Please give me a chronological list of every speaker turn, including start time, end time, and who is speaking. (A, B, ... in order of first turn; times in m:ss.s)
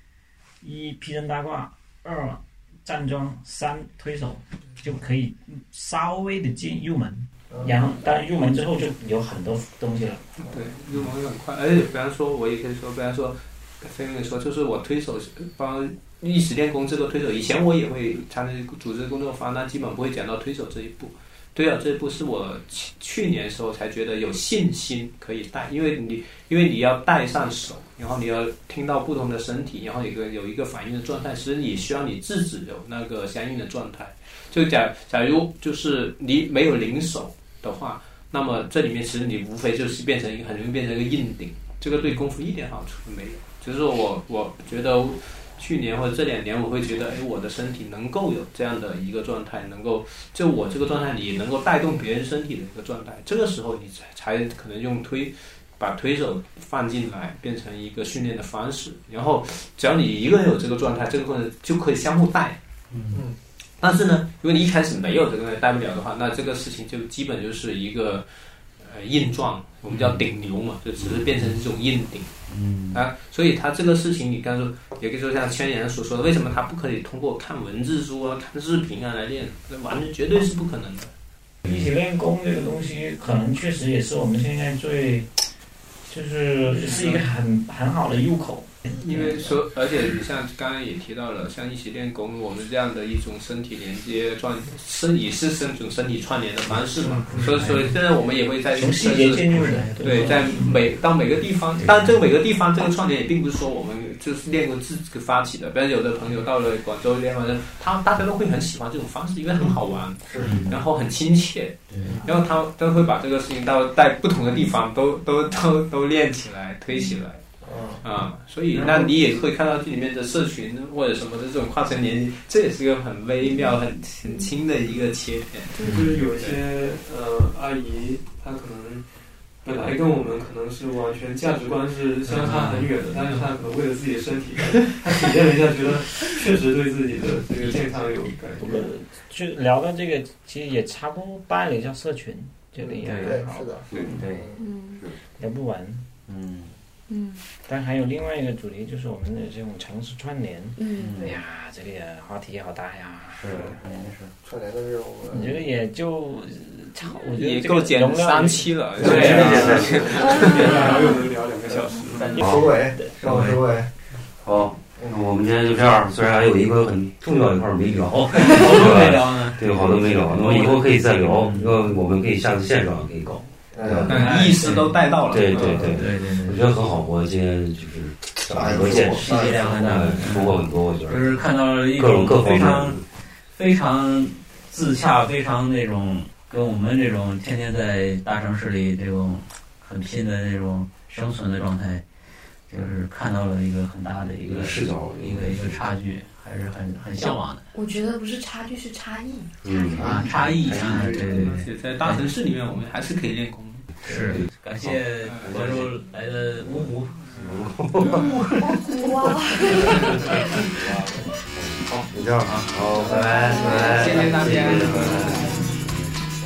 0:00.6-0:10.2 A
0:10.4-1:02.6 B
1:02.9-1:03.2 C
1:03.8-1:08.3 B
1:08.8-1:12.4 B
1:09.9-1:10.2 C
1:12.5-1:13.0 C
1:12.9-1:21.1 B
1:21.6-1:25.3 A
1:26.1-1:29.3 A
1:26.8-1:27.2 B
1:28.9-1:57.4 B
1:37.2-1:37.9 C
1:38.7-1:40.7 A
1:39.5-1:40.7 C
1:50.2-1:50.6 D
1:50.4-1:50.8 C
1:51.9-1:52.2 C
1:56.9-1:57.2 E
1:57.6-1:58.0 D
1:58.0-2:06.6 B
1:58.7-1:59.1 F
2:04.2-2:04.5 E
2:05.8-2:06.1 E
2:05.8-2:09.0 F
2:09.6-2:18.9 F
2:12.4-2:13.0 C
2:18.6-2:23.8 A
2:23.0-2:24.6 D
2:23.1-2:23.3 G
2:23.9-2:25.2 G
2:24.6-2:25.0 E
2:25.4-2:26.1 A
2:26.3-2:26.7 C
2:27.1-2:27.4 E
2:27.6-2:33.5 A
2:30.8-2:31.2 E
2:31.0-2:31.4 C
2:33.4-2:33.8 G
2:33.5-2:34.3 C
2:34.4-2:35.6 D
2:35.3-2:39.8 A
2:37.4-2:40.9 B
2:39.0-2:40.0 D
2:39.0-2:40.1 G
2:39.1-2:42.4 F
2:40.1-2:41.2 E
2:42.1-2:42.5 C
2:42.3-2:43.9 D
2:42.4-2:42.7 G
2:43.2-2:43.6 C
2:44.2-2:54.5 G
2:48.3-2:51.8 C
2:53.7-2:54.1 D
2:54.1-2:55.0 C
2:54.1-2:56.0 B
2:55.3-3:03.0 G
2:55.5-2:56.7 C
2:58.5-2:59.9 D
2:59.0-3:12.0 C
3:12.7-3:17.7 C
3:14.4-3:15.8 G
3:17.7-3:20.2 E
3:19.6-3:21.6 G
3:20.0-3:22.2 C
3:21.1-3:23.9 B
3:24.0-3:26.0 G
3:24.0-3:27.6 C
3:25.2-3:25.5 B
3:26.6-3:28.6 G
3:28.0-3:28.3 B
3:28.6-3:30.6 E
3:29.7-3:36.2 G
3:32.4-3:35.0 C
3:33.4-3:35.6 B
3:33.4-3:33.9 E